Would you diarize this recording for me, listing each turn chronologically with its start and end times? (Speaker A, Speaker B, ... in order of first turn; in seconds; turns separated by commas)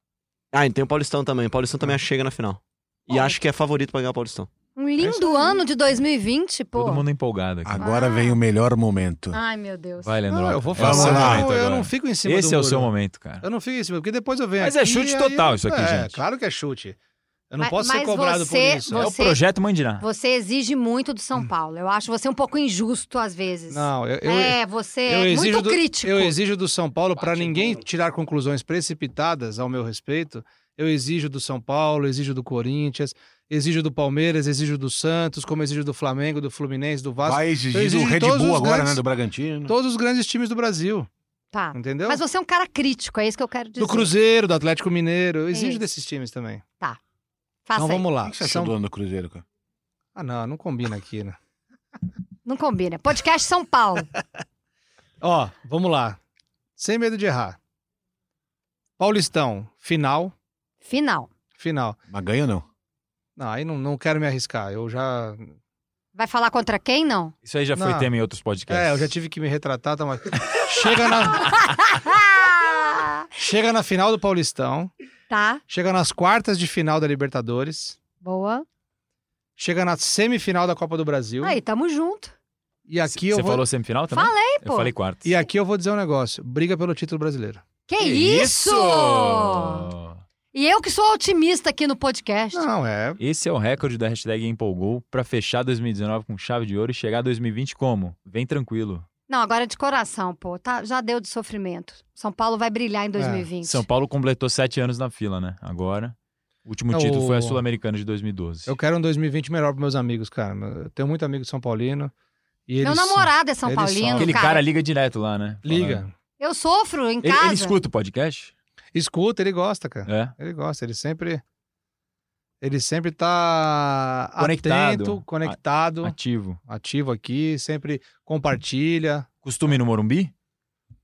Speaker A: 0.5-4.5, Speaker B: 4.8-7.0, Speaker C: 5.0-5.6, Speaker D: 6.7-7.8, Speaker E: 7.6-9.4, Speaker B: 7.8-8.4, Speaker B: 9.3-10.1, Speaker D: 10.0-13.4, Speaker C: 10.3-12.9, Speaker E: 10.8-11.5, Speaker C: 13.4-17.0, Speaker D: 14.6-16.2, Speaker C: 17.5-19.1, Speaker B: 17.6-19.4, Speaker D: 18.9-20.0, Speaker B: 20.0-26.3, Speaker C: 23.7-39.0, Speaker E: 37.2-39.8, Speaker C: 39.7-41.1, Speaker B: 41.5-44.1, Speaker C: 41.7-42.2, Speaker C: 43.8-46.6, Speaker B: 45.5-45.8, Speaker B: 47.6-48.1, Speaker C: 47.7-48.7, Speaker E: 48.2-49.4, Speaker C: 50.1-51.4, Speaker B: 52.5-54.1, Speaker C: 55.2-56.2, Speaker C: 56.8-57.6, Speaker C: 59.0-60.3, Speaker B: 60.8-61.3, Speaker C: 61.6-62.0, Speaker E: 62.1-62.6, Speaker C: 63.4-65.5, Speaker B: 66.1-67.3, Speaker D: 67.5-69.1, Speaker C: 67.7-68.1, Speaker C: 68.7-71.7, Speaker B: 71.5-73.3, Speaker C: 73.3-74.9, Speaker B: 75.3-75.6, Speaker C: 75.7-78.0, Speaker B: 78.2-78.6, Speaker C: 79.6-81.6, Speaker B: 81.4-82.3, Speaker C: 82.9-83.6, Speaker D: 83.1-85.2, Speaker B: 84.1-84.9, Speaker C: 85.2-87.6, Speaker B: 87.9-89.9, Speaker D: 88.0-90.2, Speaker B: 90.5-92.6, Speaker C: 92.5-93.2, Speaker D: 93.2-99.0, Speaker B: 99.3-103.8, Speaker C: 103.2-103.5, Speaker D: 103.6-108.8, Speaker C: 106.9-107.6, Speaker C: 108.7-112.1, Speaker C: 112.7-114.4, Speaker B: 112.8-114.6, Speaker D: 114.2-116.0, Speaker C: 115.7-116.1, Speaker B: 116.4-117.8, Speaker D: 117.2-118.5, Speaker C: 118.9-121.4, Speaker D: 120.0-120.3, Speaker C: 122.6-126.1, Speaker D: 124.4-126.6, Speaker C: 126.7-129.3, Speaker D: 129.4-130.3